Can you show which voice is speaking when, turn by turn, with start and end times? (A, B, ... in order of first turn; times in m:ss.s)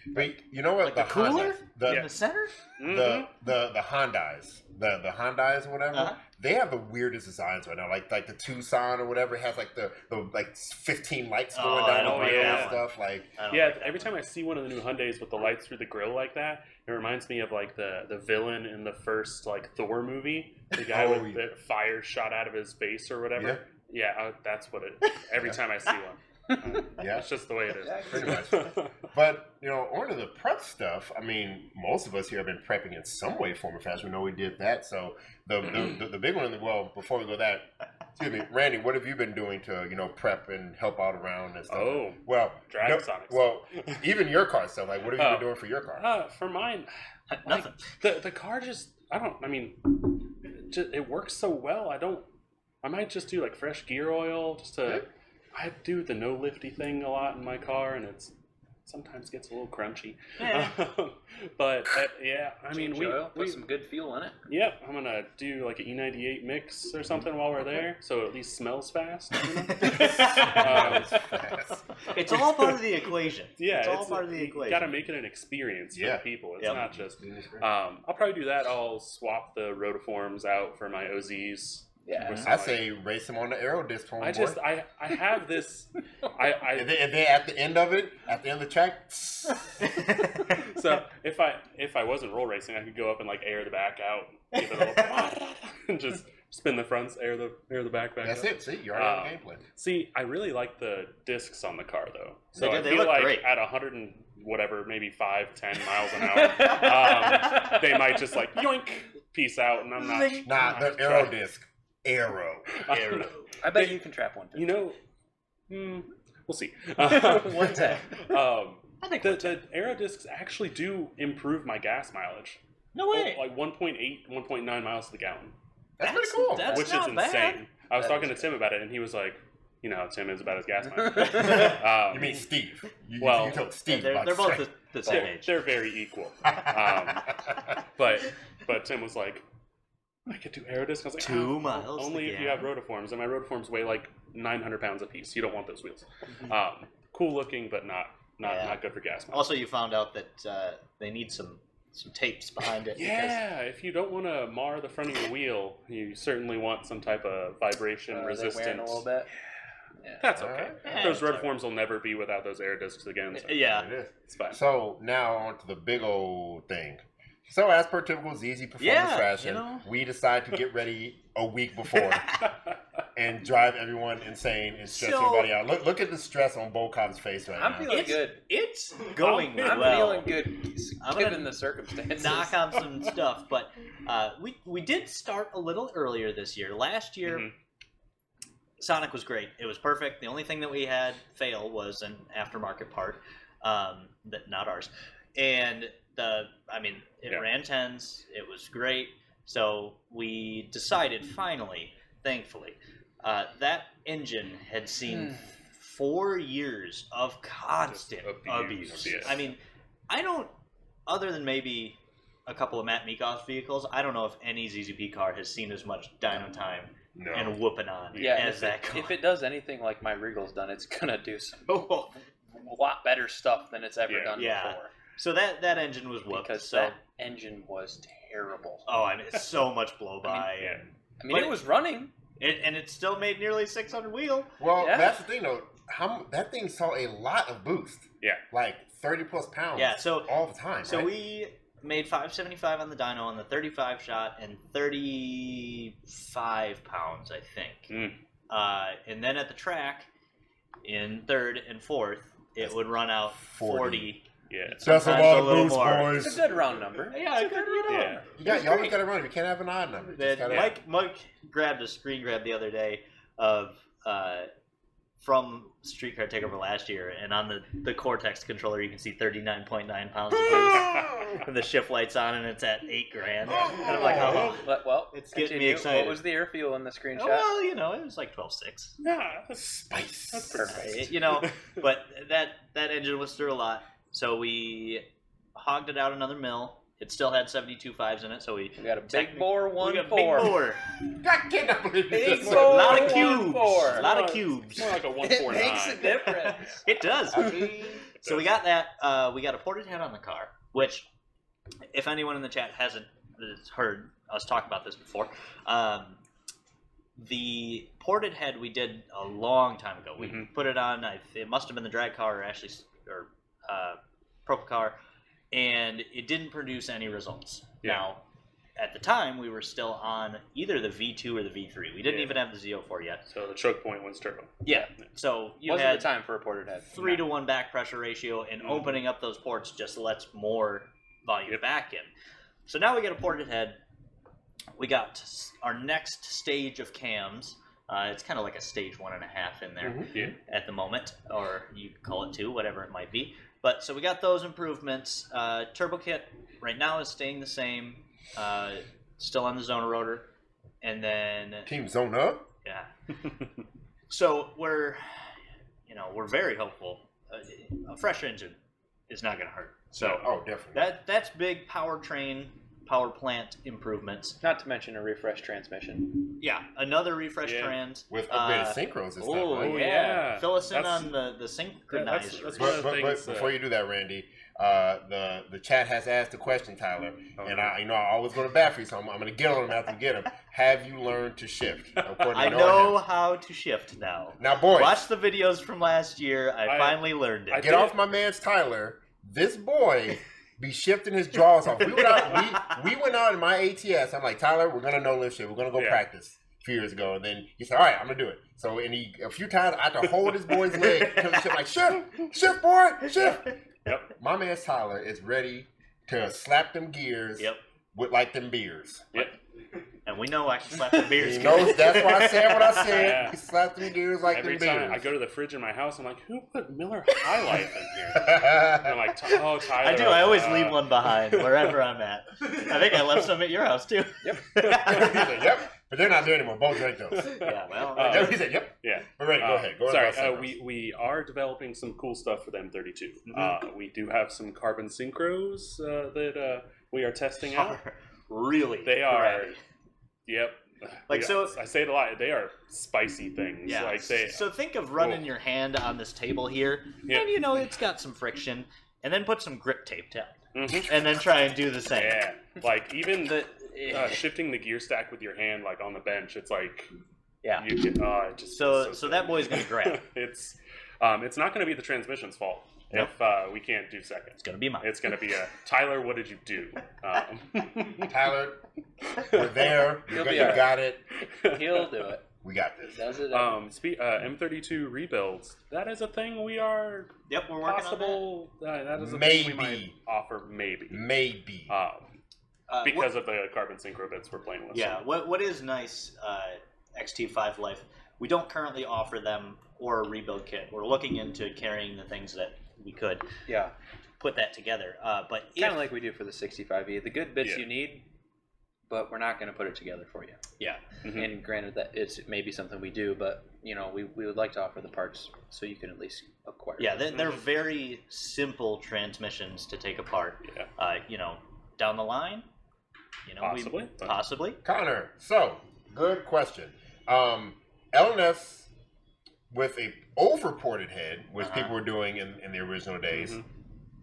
0:00.1-0:02.1 A
0:00.8-0:02.7 B
0:02.8-0:03.3 C
0:02.8-0:13.4 A
0:05.9-0:06.2 B
0:11.5-0:12.8 B
0:11.9-0:12.8 C
0:13.4-0:14.1 B
0:13.5-0:29.0 C
0:20.8-0:21.4 A
0:23.4-0:23.6 A
0:27.0-0:27.3 A
0:27.8-0:28.4 D
0:28.0-0:46.1 A
0:41.7-0:44.0 C
0:45.2-0:46.9 C
0:47.3-0:47.9 B
0:47.4-0:52.3 C
0:52.8-0:58.3 C
0:58.9-1:03.6 C
1:00.4-1:00.8 B
1:02.7-1:04.4 D
1:04.5-1:11.3 C
1:07.0-1:07.9 A
1:09.8-1:11.0 B
1:10.4-1:11.8 A
1:12.1-1:14.9 B
1:12.2-1:12.8 C
1:13.6-1:22.8 C
1:15.9-1:17.7 A
1:22.1-1:22.4 D
1:22.2-1:22.5 B
1:22.5-1:24.6 A
1:24.2-1:26.9 C
1:26.7-1:29.8 A
1:29.8-1:30.7 B
1:30.5-1:51.4 C
1:34.6-1:35.2 B
1:38.2-1:39.6 A
1:42.6-1:43.5 B
1:46.4-1:47.8 D
1:50.0-1:50.5 B
1:50.4-1:53.3 A
1:52.7-1:54.0 C
1:52.9-1:53.4 B
1:53.6-1:54.8 D
1:54.5-1:55.0 C
1:55.7-2:02.6 C
1:57.1-1:58.0 D
1:59.0-1:59.6 B
2:03.0-2:03.4 B
2:03.1-2:05.6 C
2:06.0-2:06.9 A
2:06.0-2:07.6 B
2:06.7-2:12.4 C
2:08.0-2:08.5 D
2:11.0-2:11.7 D
2:11.4-2:11.7 B
2:11.5-2:14.7 A
2:13.2-2:13.6 C
2:13.9-2:15.6 B
2:15.0-2:17.4 C
2:16.5-2:17.6 A
2:18.0-2:19.4 C
2:20.3-2:29.6 C
2:21.2-2:22.7 B
2:28.4-2:28.8 B
2:29.3-2:33.4 B
2:32.9-2:39.1 C
2:38.1-2:39.3 D
2:40.0-2:40.3 D
2:40.2-2:44.6 C
2:40.4-2:41.1 A
2:40.8-2:41.5 B
2:43.3-2:43.9 B
2:43.6-2:52.5 A
2:48.8-2:49.9 B
2:52.2-2:52.4 B
2:53.2-2:58.2 A
2:54.9-2:55.5 B
2:57.5-2:58.4 D
2:57.9-3:00.4 B
2:59.2-3:00.2 C
2:59.6-3:02.6 D
3:01.0-3:01.5 B
3:02.1-3:07.5 B
3:07.2-3:07.5 C
3:08.8-3:30.5 B
3:27.9-3:29.5 C
3:31.1-3:39.2 B
3:37.2-3:37.6 A
3:38.1-3:38.7 C
3:38.2-3:41.8 D
3:41.7-3:42.1 B
3:42.5-3:44.9 D
3:44.1-3:44.4 C
3:44.4-3:47.0 B
3:46.3-3:48.9 D
3:48.9-3:51.6 B
3:50.3-3:50.8 C
3:51.2-3:52.1 D
3:52.4-3:54.5 B
3:54.6-4:01.1 A
3:54.8-3:55.2 D
3:59.8-4:07.9 B
4:07.9-4:08.2 C
4:08.5-4:10.1 B
4:10.8-4:14.2 B
4:13.3-4:14.1 A
4:14.5-4:15.1 C
4:14.8-4:16.3 B
4:14.8-4:16.4 A
4:16.1-4:18.2 D
4:17.1-4:19.0 B
4:17.9-4:18.2 C
4:18.4-4:20.8 A
4:20.1-4:24.5 B
4:20.5-4:20.8 C
4:25.2-4:36.2 B
4:30.3-4:31.4 A
4:30.5-4:31.0 C
4:33.5-4:34.5 A
4:33.9-4:34.5 C
4:33.9-4:37.5 D
4:37.2-4:39.0 B
4:39.0-4:41.6 C
4:39.9-4:40.7 A
4:40.5-4:41.1 D
4:40.7-4:50.8 B
4:48.8-4:50.6 D
4:51.0-4:53.3 A
4:52.1-4:54.1 D
4:52.5-4:55.0 B
4:52.6-4:56.2 C
4:55.2-4:56.8 D
4:56.0-5:01.1 B
4:57.4-4:57.9 A
4:57.4-4:57.7 D
4:58.2-4:58.5 C
5:01.9-5:06.2 B
5:07.2-5:15.0 B
5:10.2-5:10.5 C
5:15.5-5:18.2 B
5:18.8-5:23.2 B
5:22.0-5:22.4 C
5:23.3-5:24.6 C
5:24.6-5:26.1 B
5:25.6-5:27.2 D
5:26.9-5:32.1 B
5:28.6-5:29.0 C
5:32.7-5:33.8 B
5:34.8-5:50.3 B
5:39.8-5:40.3 A
5:50.8-5:51.7 B
5:51.7-5:52.5 A
5:52.6-5:52.9 B
5:54.1-5:55.0 B
5:55.9-5:58.6 B
5:59.1-6:04.4 B
6:00.0-6:00.9 A
6:04.4-6:06.4 D
6:06.4-6:12.9 B
6:07.4-6:07.8 C
6:08.1-6:09.8 A
6:09.6-6:11.1 C
6:11.9-6:13.6 C
6:12.6-6:23.0 A
6:17.4-6:17.8 C
6:22.0-6:22.7 C
6:22.3-6:27.8 B
6:24.4-6:25.0 A
6:26.6-6:28.0 C
6:27.5-6:43.5 A
6:31.8-6:32.8 B
6:35.8-6:36.0 C
6:44.2-6:49.3 A
6:50.1-6:53.2 B
6:51.2-6:55.1 A
6:52.8-6:53.4 C
6:54.3-7:01.8 C
6:58.1-6:59.0 A
6:59.3-7:05.4 B
7:04.6-7:05.5 C
7:04.7-7:07.4 A
7:07.1-7:17.8 C
7:07.3-7:08.4 B
7:08.0-7:10.6 A
7:17.4-7:19.6 B
7:18.8-7:19.6 C
7:20.3-7:25.2 C
7:21.1-7:21.6 B
7:23.7-7:32.2 B
7:30.5-7:31.2 C
7:31.9-7:36.9 C
7:37.4-7:37.7 B
7:37.6-7:48.2 C
7:38.5-7:40.0 B
7:44.4-7:44.9 B
7:48.0-7:48.6 A
7:49.1-7:50.4 C
7:49.1-7:51.0 A
7:50.1-7:50.8 D
7:51.3-7:52.1 C
7:51.4-7:52.2 D
7:52.4-7:53.0 A
7:52.9-7:53.6 D
7:53.3-8:01.1 C
7:57.3-7:58.2 B
7:59.0-8:00.0 A
8:00.9-8:01.8 A
8:01.7-8:02.1 C
8:02.7-8:03.1 B
8:02.8-8:05.1 C
8:04.7-8:13.3 B
8:13.5-8:13.7 D
8:14.2-8:15.9 B
8:15.6-8:18.1 D
8:18.9-8:20.4 D
8:21.0-8:21.3 C
8:21.1-8:27.0 D
8:26.8-8:32.5 B
8:27.1-8:27.4 C
8:33.3-8:34.6 B
8:33.4-8:34.2 C
8:34.6-8:38.7 A
8:39.5-8:43.4 A
8:41.4-8:41.7 B
8:43.1-8:43.4 C